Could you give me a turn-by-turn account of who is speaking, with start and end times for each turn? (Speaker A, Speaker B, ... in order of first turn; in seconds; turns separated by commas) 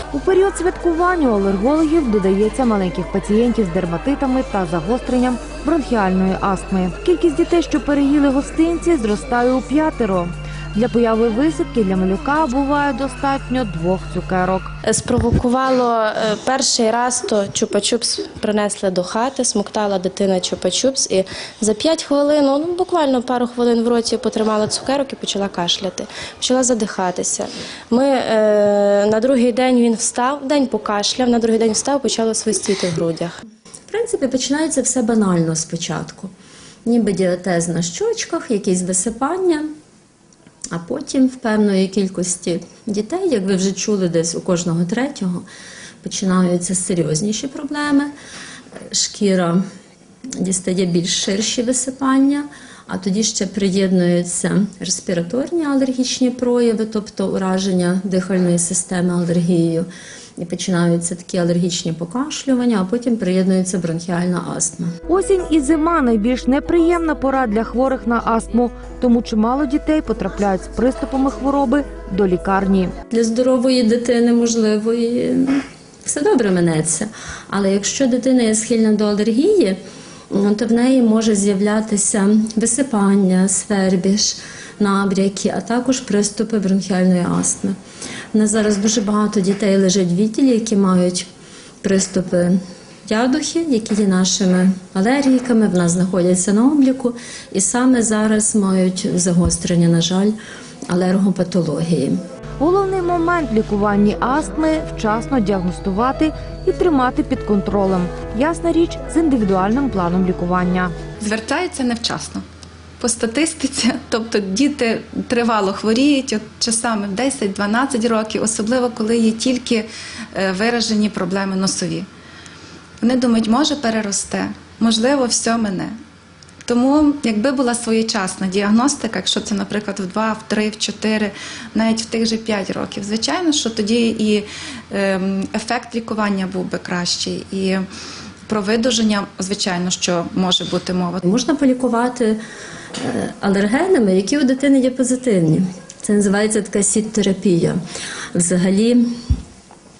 Speaker A: 0.1-14.7, Speaker B: 14.8-33.4, Speaker C: 33.9-36.3, Speaker C: 36.8-39.7, Speaker C: 40.7-45.4, Speaker C: 46.0-48.1, Speaker C: 48.9-49.6, Speaker C: 50.4-64.9, Speaker A: 65.1-72.9, Speaker C: 73.1-87.8, Speaker C: 88.3-91.3, Speaker C: 91.8-100.3, Speaker C: 100.9-102.2, Speaker A: 102.6-110.9, Speaker D: 111.2-112.4, Speaker D: 113.0-122.1, Speaker D: 123.0-126.0, Speaker D: 126.7-137.8, Speaker D: 138.5-141.2, Speaker C: 141.2-142.4, Speaker C: 143.0-147.8, Speaker C: 148.3-149.1